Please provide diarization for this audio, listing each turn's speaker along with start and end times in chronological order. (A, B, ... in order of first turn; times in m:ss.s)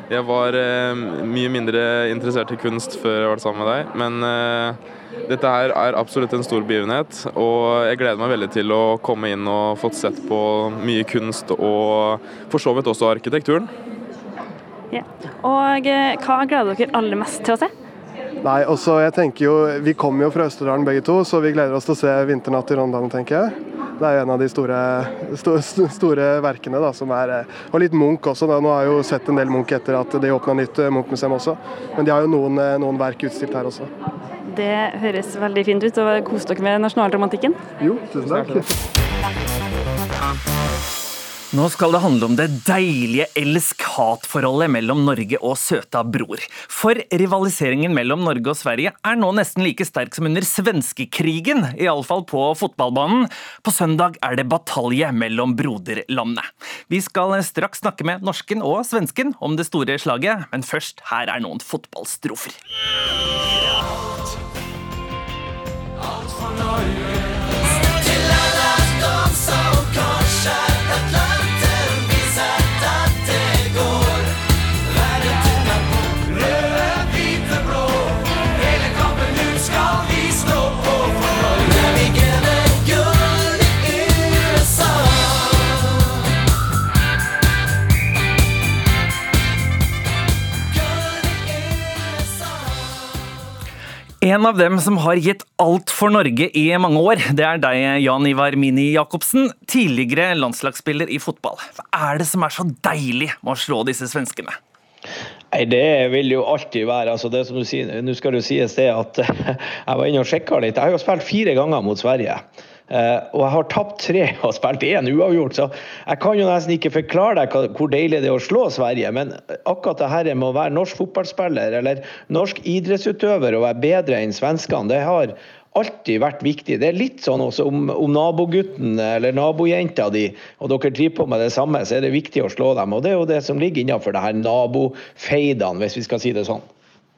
0:00.1-0:13.7 A
0:14.9-0:17.7 B
0:18.4-0:33.9 C
0:34.5-0:37.7 B
0:37.8-0:38.7 C
0:38.3-0:38.6 B
0:41.5-1:02.6 D
1:34.2-1:44.6 D
1:45.5-2:16.6 E